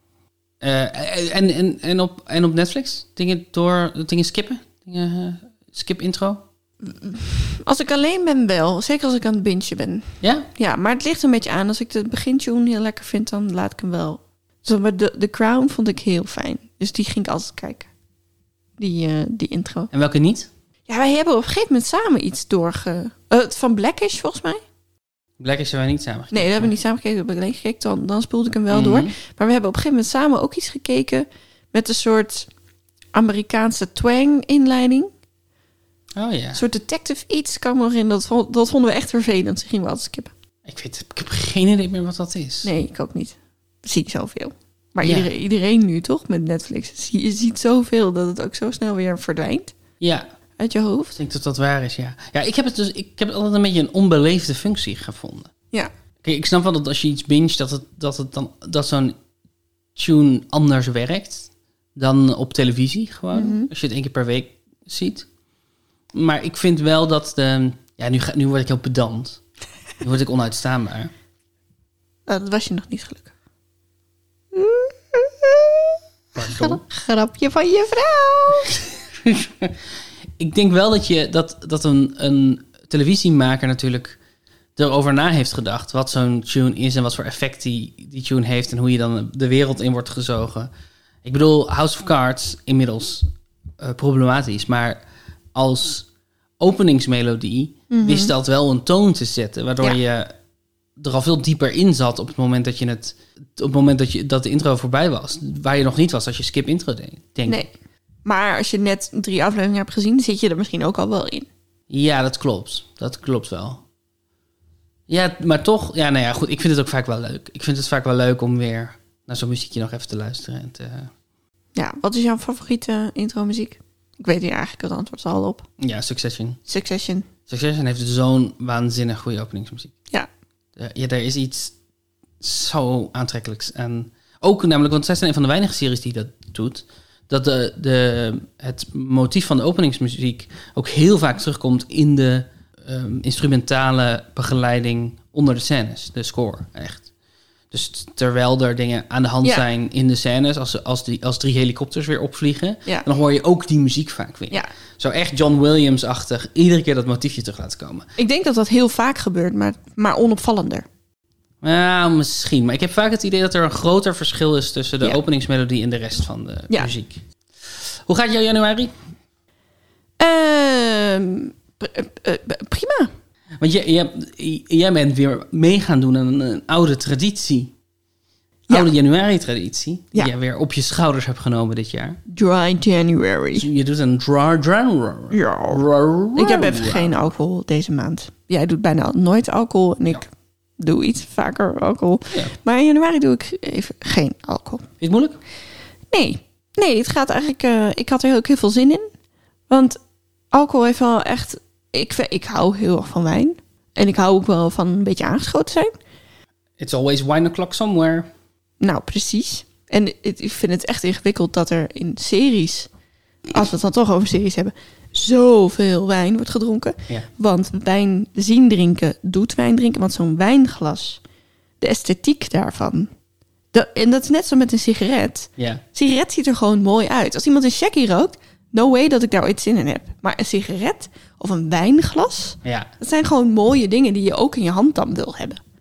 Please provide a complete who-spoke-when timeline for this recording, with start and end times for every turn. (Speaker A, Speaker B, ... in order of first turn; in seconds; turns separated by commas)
Speaker A: 0.6-6.4, Speaker B: 6.8-17.9, Speaker A: 10.2-10.5, Speaker B: 18.8-19.9, Speaker A: 19.9-20.5, Speaker B: 20.9-24.6, Speaker A: 25.4-26.7, Speaker B: 26.3-32.5, Speaker A: 28.7-29.1, Speaker B: 33.1-35.1, Speaker A: 36.1-36.6, Speaker B: 36.5-40.3, Speaker A: 40.6-42.7, Speaker B: 42.6-49.7, Speaker A: 45.0-45.3, Speaker A: 50.0-50.3, Speaker B: 50.6-51.2, Speaker A: 51.1-55.5, Speaker A: 56.2-59.2, Speaker A: 60.0-65.3, Speaker B: 63.3-63.7, Speaker A: 66.1-69.4, Speaker A: 70.0-71.1, Speaker B: 72.3-73.3, Speaker B: 74.5-78.8, Speaker A: 76.3-76.8, Speaker A: 79.1-79.8, Speaker A: 80.4-84.2, Speaker A: 84.8-90.7, Speaker A: 91.2-93.3, Speaker A: 93.8-95.0, Speaker A: 95.5-96.1, Speaker A: 96.6-100.3, Speaker B: 97.9-98.3, Speaker A: 101.0-107.6, Speaker B: 108.2-111.5, Speaker A: 111.9-113.8, Speaker A: 115.1-121.1, Speaker B: 121.8-125.7, Speaker A: 125.8-126.6, Speaker B: 126.7-127.3, Speaker A: 127.5-129.9, Speaker A: 130.8-131.8, Speaker A: 132.4-147.1, Speaker A: 147.7-158.1, Speaker B: 158.2-160.9, Speaker A: 161.6-168.9, Speaker B: 170.2-173.1, Speaker A: 173.6-177.7, Speaker A: 178.7-182.2, Speaker B: 182.3-183.7, Speaker A: 183.6-187.3, Speaker B: 185.3-185.8, Speaker B: 186.3-194.9, Speaker A: 195.0-195.4, Speaker B: 196.1-199.1, Speaker B: 199.7-200.0, Speaker B: 200.5-205.9, Speaker A: 206.8-208.3, Speaker B: 208.8-212.9, Speaker B: 213.5-221.2, Speaker B: 221.8-223.1, Speaker B: 223.7-235.6, Speaker A: 232.6-232.9